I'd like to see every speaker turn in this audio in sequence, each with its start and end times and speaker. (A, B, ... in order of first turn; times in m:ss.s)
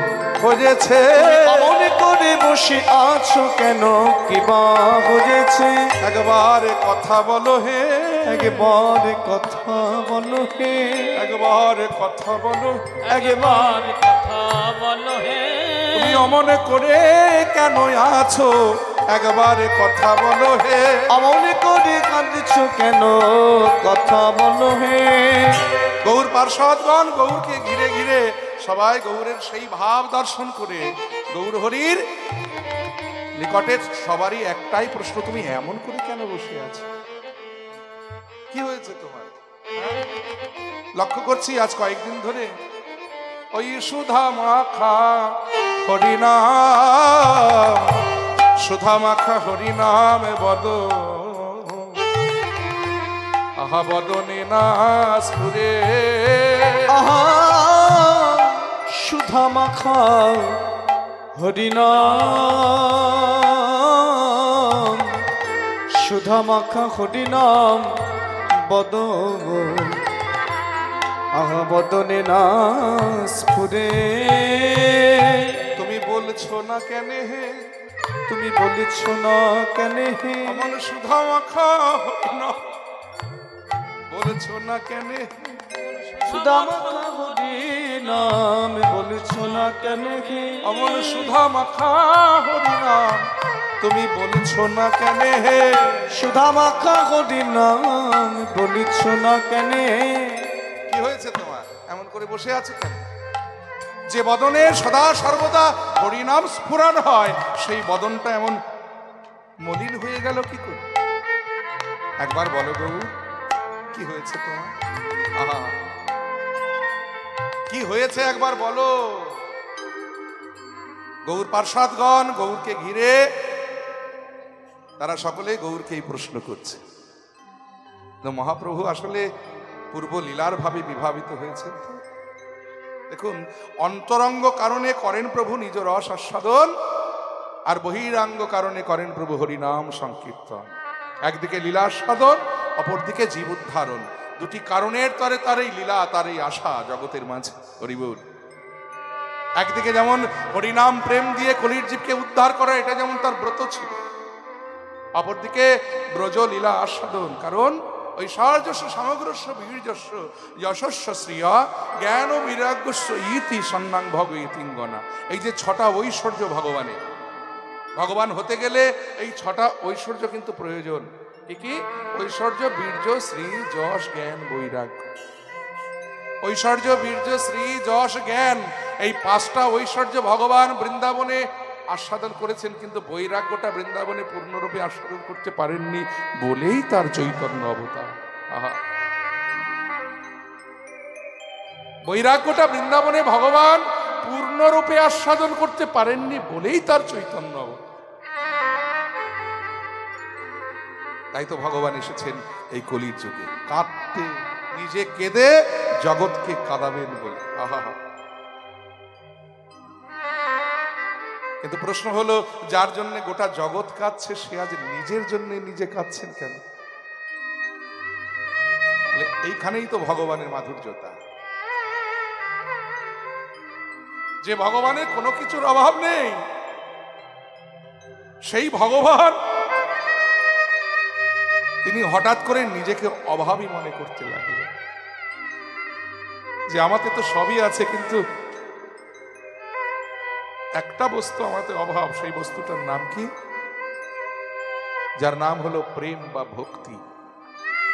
0:00.4-0:01.7 A
0:01.2-0:05.9 B
0:06.0-0:08.7 A
0:08.3-0:11.2 B
0:11.2-0:12.9 A
0:13.0-0:16.3 C
0:13.1-0:13.8 B
0:15.9-0:21.1 A
0:21.1-0:25.6 B
0:26.0-0:32.0 A
0:33.4-0:36.9 A
0:38.5-0:39.9 A
0:41.0-0:42.5 A
0:43.5-0:48.0 A
0:48.6-0:52.0 A
0:53.6-0:56.8 A
0:56.9-1:00.6 B
1:01.4-1:05.1 B
1:06.0-1:07.9 B
1:08.6-1:10.0 B
1:11.4-1:15.4 B
1:15.8-1:17.6 A
1:18.3-1:20.6 B
1:20.5-1:22.7 A
1:24.1-1:25.6 A
1:26.1-1:27.2 C
1:26.3-1:31.0 B
1:30.6-1:33.3 A
1:33.8-1:36.0 A
1:36.1-1:40.4 B
1:40.9-1:43.0 A
1:44.1-1:48.6 A
1:49.6-1:50.8 A
1:52.2-1:53.1 A
1:53.9-1:54.7 A
1:55.4-1:55.8 A
1:57.7-1:59.3 A
2:01.3-2:03.2 A
2:05.0-2:06.8 A
2:08.2-2:09.3 A
2:09.9-2:12.0 A
2:13.1-2:16.7 A
2:17.7-2:28.2 A
2:29.6-2:34.0 A
2:35.2-2:47.0 A
2:48.0-2:55.1 A
2:56.4-3:08.8 A
3:12.1-3:17.8 A
3:21.3-3:25.5 A
3:26.0-3:28.0 A
3:31.6-3:36.6 A
3:39.1-3:41.2 A
3:44.4-3:46.4 A
3:48.5-3:49.4 A
3:51.8-3:54.7 A
3:56.7-3:58.2 A
4:00.8-4:03.3 A
4:05.2-4:07.0 A